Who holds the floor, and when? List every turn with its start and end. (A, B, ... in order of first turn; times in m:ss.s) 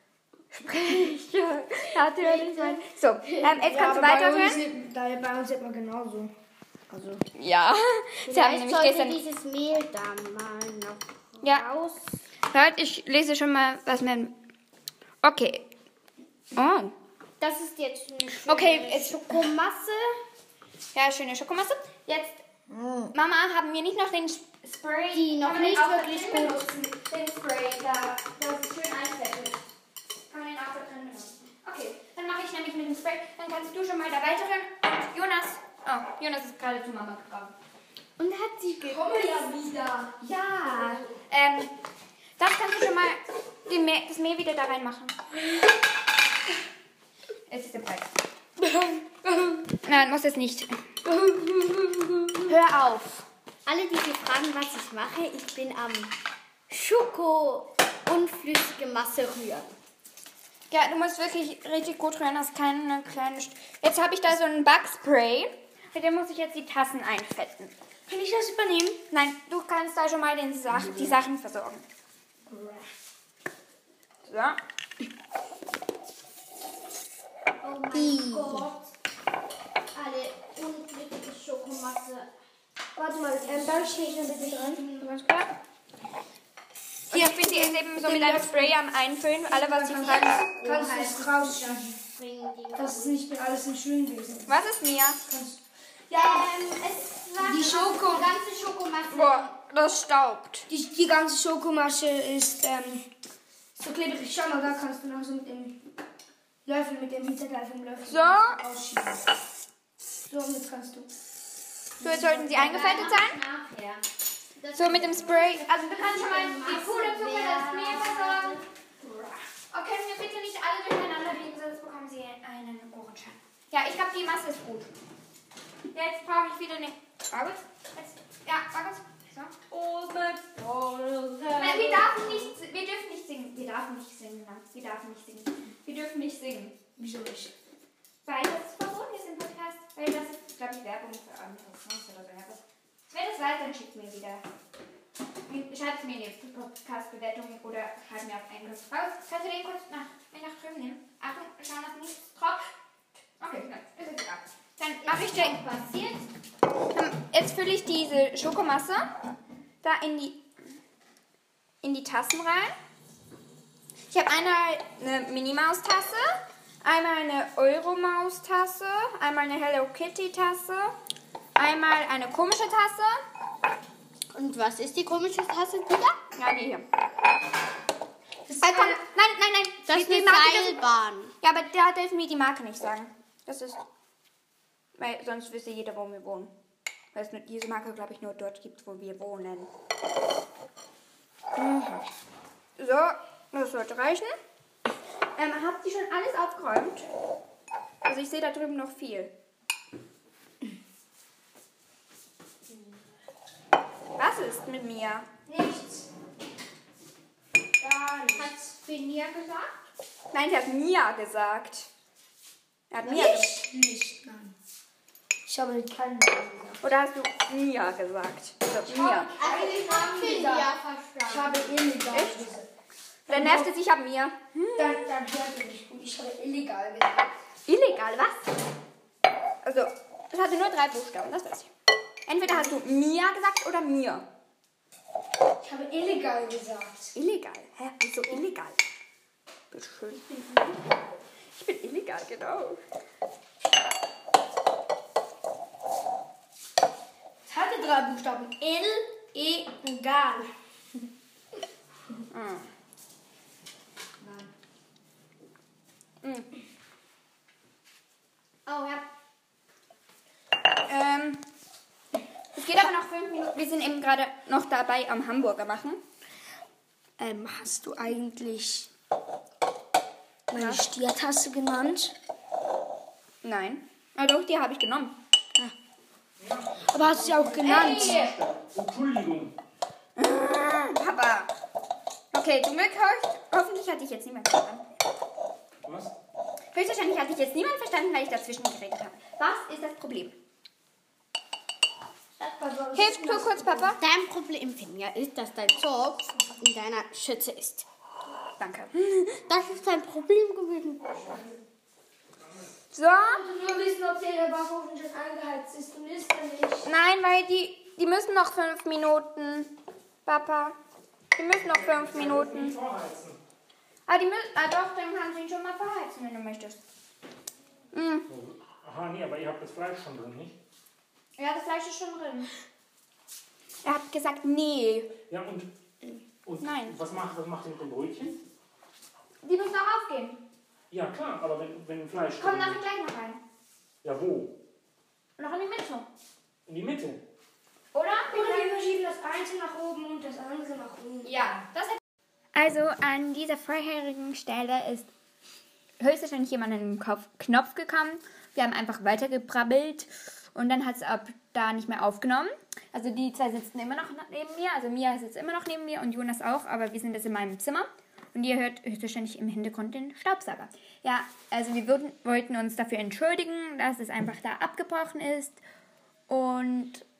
0:00.5-0:04.6 A
0:02.0-0:04.0 B
0:03.7-0:06.3 C
0:06.9-0:07.2 C
0:07.3-0:09.2 A
0:08.2-0:12.1 B
0:12.5-0:14.4 A
0:15.2-0:15.6 A
0:16.5-0:16.9 A
0:17.4-0:20.2 B
0:18.5-0:19.4 A
0:20.9-0:22.4 A
0:23.1-0:29.6 A
0:25.1-0:26.6 B
0:30.3-0:37.5 A
0:38.2-0:39.5 B
0:38.8-0:40.2 C
0:40.2-0:41.7 A
0:42.4-0:45.2 A
0:47.5-0:48.1 A
0:48.6-0:49.7 C
0:49.8-0:50.7 A
0:51.0-0:52.5 C
0:52.4-0:56.1 B
0:56.7-0:59.7 B
1:00.7-1:07.7 A
1:08.1-1:09.0 C
1:09.1-1:11.8 A
1:12.5-1:12.9 C
1:14.2-1:14.6 A
1:17.6-1:18.9 B
1:17.9-1:18.7 C
1:19.9-1:22.3 B
1:23.0-1:24.8 C
1:23.3-1:25.1 B
1:25.0-1:25.5 A
1:27.1-1:30.5 A
1:27.1-1:28.8 C
1:29.5-1:32.0 C
1:30.0-1:33.2 B
1:32.7-1:34.5 C
1:34.5-1:35.2 A
1:35.3-1:36.6 C
1:36.1-1:39.5 B
1:37.4-1:38.3 C
1:39.1-1:40.7 A
1:40.7-1:43.1 C
1:43.8-1:45.8 C
1:46.6-1:49.2 C
1:48.1-1:48.6 A
1:50.2-1:51.1 C
1:52.0-1:54.0 B
1:52.0-1:53.4 A
1:54.6-1:58.6 B
1:54.7-1:58.6 A
1:59.0-1:59.4 C
1:59.7-2:04.9 A
2:05.9-2:09.7 A
2:10.5-2:12.5 B
2:11.6-2:16.7 A
2:17.0-2:17.5 C
2:18.2-2:24.4 A
2:25.5-2:32.7 A
2:33.4-2:35.7 A
2:35.0-2:36.2 B
2:36.9-2:39.1 A
2:39.8-2:40.4 A
2:41.8-2:42.7 A
2:44.1-2:50.9 A
2:51.6-2:53.2 A
2:54.3-2:56.2 B
2:56.4-2:56.8 A
2:58.5-2:59.0 C
2:58.6-3:00.8 A
2:59.9-3:01.3 B
3:01.4-3:03.8 A
3:05.0-3:06.5 A
3:07.1-3:09.7 A
3:11.6-3:12.0 A
3:12.8-3:14.3 A
3:15.4-3:17.1 A
3:18.0-3:19.3 A
3:24.2-3:25.3 A
3:25.4-3:26.1 C
3:27.8-3:28.5 C
3:28.3-3:29.7 B
3:30.3-3:31.9 A
3:32.9-3:33.5 A
3:33.0-3:34.5 C
3:35.4-3:36.8 C
3:36.8-3:39.3 A
3:38.9-3:40.7 C
3:39.3-3:41.7 B
3:41.3-3:42.7 C
3:42.1-3:42.4 A
3:43.3-3:45.0 A
3:43.3-3:43.7 C
3:44.8-3:47.3 C
3:47.7-3:48.5 A
3:49.6-3:51.7 A
3:52.2-3:54.2 A
3:55.6-3:57.1 C
3:57.1-3:58.8 A
3:59.7-4:00.8 A
4:01.6-4:02.8 A
4:07.5-4:10.5 C
4:12.3-4:12.7 A
4:14.2-4:14.5 C
4:16.2-4:16.5 A
4:18.6-4:19.0 B
4:20.8-4:21.4 A
4:22.6-4:26.0 A
4:27.2-4:28.9 C
4:30.5-4:32.1 C
4:30.5-4:30.8 A
4:33.4-4:35.1 A
4:36.4-4:39.6 D
4:36.9-4:38.3 C
4:37.6-4:38.3 A
4:40.2-4:41.5 A
4:42.3-4:44.8 A
4:45.8-4:46.1 D
4:46.7-4:50.4 A
4:52.4-4:53.9 C
4:52.9-4:54.0 A
4:54.0-4:57.9 B
4:58.6-4:59.4 A
4:59.5-5:01.4 B
5:02.9-5:03.4 A
5:03.2-5:06.9 C
5:06.8-5:09.7 A
5:10.2-5:10.8 A
5:11.4-5:12.7 A
5:11.5-5:13.4 D
5:14.1-5:16.8 A
5:17.9-5:18.3 A
5:18.3-5:20.6 D
5:21.4-5:22.5 A
5:23.8-5:25.1 A
5:25.3-5:25.7 D
5:26.4-5:28.4 D
5:26.6-5:27.0 A
5:29.4-5:30.4 A
5:30.9-5:32.8 D
5:32.4-5:33.4 A
5:34.0-5:34.6 D
5:35.4-5:36.1 A
5:36.6-5:37.2 D
5:37.9-5:38.8 A
5:38.2-5:41.6 C
5:41.2-5:42.0 A
5:42.5-5:45.1 A
5:46.0-6:05.6 A
6:06.3-6:07.0 A